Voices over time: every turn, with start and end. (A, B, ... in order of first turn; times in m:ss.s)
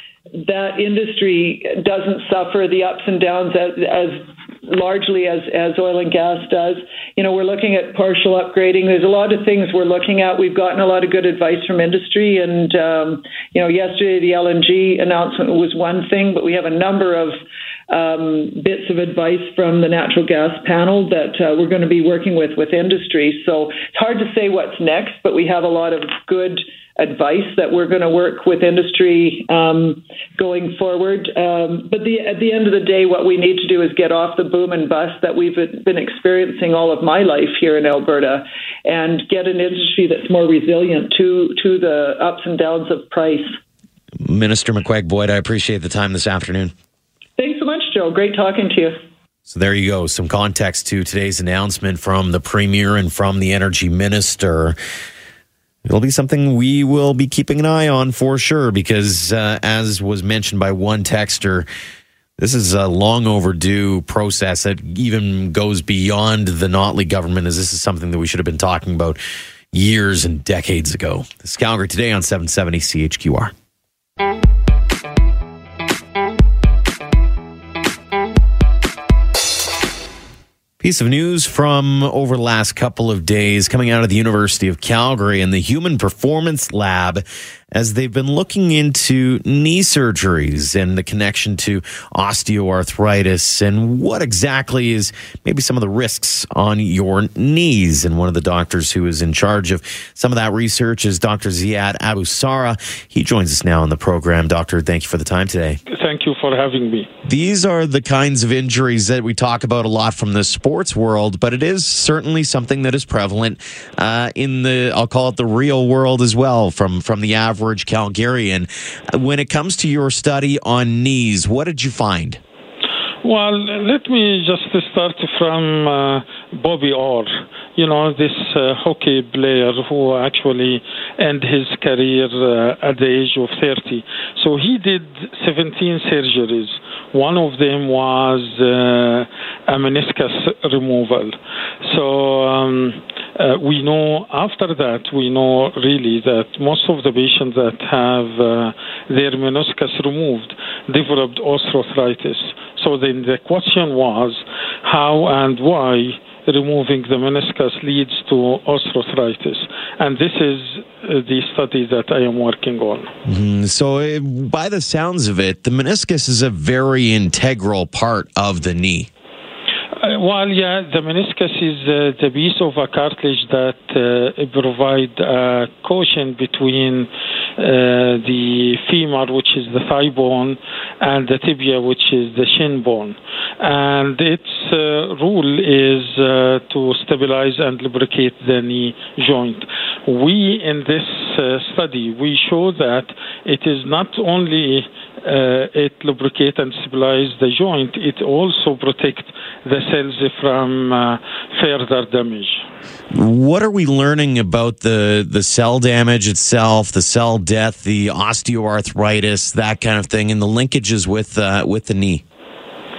0:00.3-0:17.4 A
0:17.9-0:43.6 A
0:44.2-0:46.7 B
0:47.4-0:49.0 A
0:49.5-0:54.8 B
0:55.8-1:01.6 B
1:02.4-1:09.2 B
1:09.7-1:13.5 B
1:20.8-1:45.8 B
1:45.9-1:47.1 C
1:47.2-2:02.4 B
2:03.2-2:43.1 C
2:43.2-2:49.1 B
2:50.0-3:22.6 C
3:23.1-3:32.2 B